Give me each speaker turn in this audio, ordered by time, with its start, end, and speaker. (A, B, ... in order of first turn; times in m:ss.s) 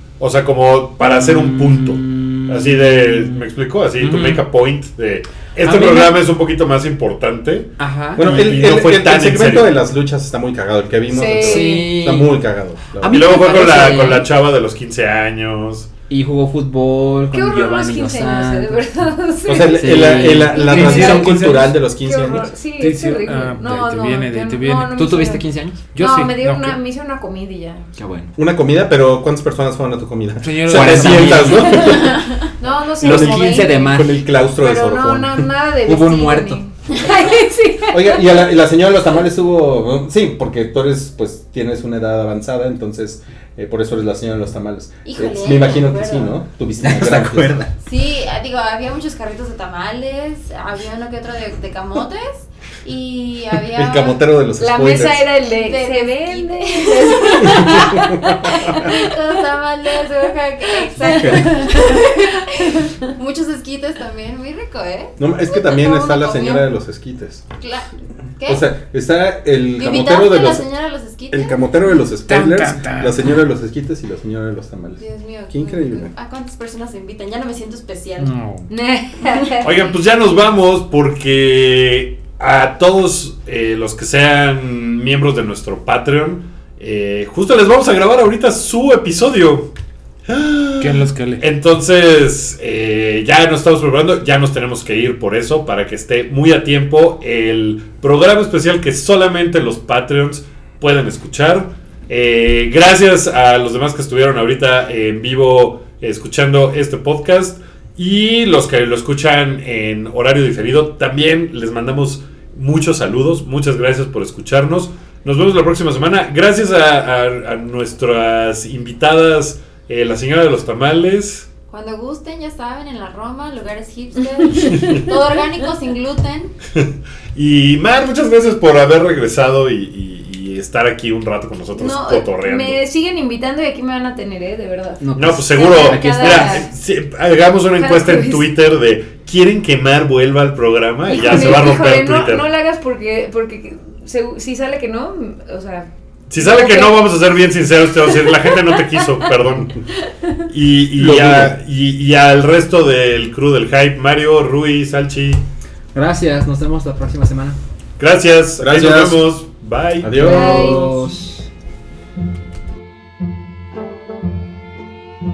0:00.2-0:09.8 A
0:01.0-0:03.4 B
0:04.0-0:04.4 B
0:05.6-0:06.1 B
0:07.8-0:08.2 B
0:08.2-0:13.5 C
0:11.1-0:11.9 D
0:11.4-0:12.3 B
0:13.0-0:14.3 B
0:13.1-0:15.9 A
0:16.1-0:18.8 B
0:17.3-0:27.9 D
0:19.4-0:22.5 C
0:19.6-0:21.0 B
0:20.5-0:21.8 E
0:22.8-0:25.0 E
0:24.9-0:25.9 B
0:25.9-0:26.8 E
0:28.0-0:28.3 B
0:28.4-0:32.4 C
0:30.4-0:31.4 E
0:30.7-0:32.1 B
0:31.6-0:31.9 D
0:32.0-0:32.4 F
0:32.6-0:33.9 D
0:33.0-0:35.5 C
0:33.0-0:34.2 B
0:34.6-0:38.2 D
0:35.8-0:36.6 B
0:37.9-0:47.6 C
0:45.0-0:46.4 F
0:46.8-0:47.7 B
0:47.8-0:54.2 F
0:53.5-0:55.3 C
0:54.6-0:59.1 D
0:55.5-1:06.6 F
0:57.5-0:58.7 C
1:00.7-1:02.9 D
1:01.1-1:01.5 B
1:05.2-1:07.4 C
1:07.6-1:07.9 F
1:08.4-1:08.7 F
1:08.5-1:10.7 C
1:09.7-1:11.7 F
1:11.3-1:16.1 C
1:12.3-1:13.3 E
1:15.0-1:18.3 F
1:18.2-1:18.7 E
1:18.7-1:19.7 D
1:19.6-1:29.7 A
1:30.3-2:01.5 A
1:30.8-1:31.4 E
2:01.7-2:06.5 F
2:04.4-2:05.4 D
2:04.8-2:05.0 A
2:06.8-2:12.8 A
2:11.7-2:16.7 D
2:15.0-2:16.6 B
2:15.2-2:22.4 A
2:17.8-2:18.4 D
2:21.1-2:27.0 D
2:26.3-2:29.7 A
2:28.1-2:29.1 D
2:30.5-2:35.4 A
2:31.0-2:31.5 C
2:35.9-2:37.6 B
2:38.0-2:40.2 A
2:38.6-2:39.2 C
2:40.0-2:40.8 C
2:40.2-2:41.4 B
2:40.2-2:41.0 D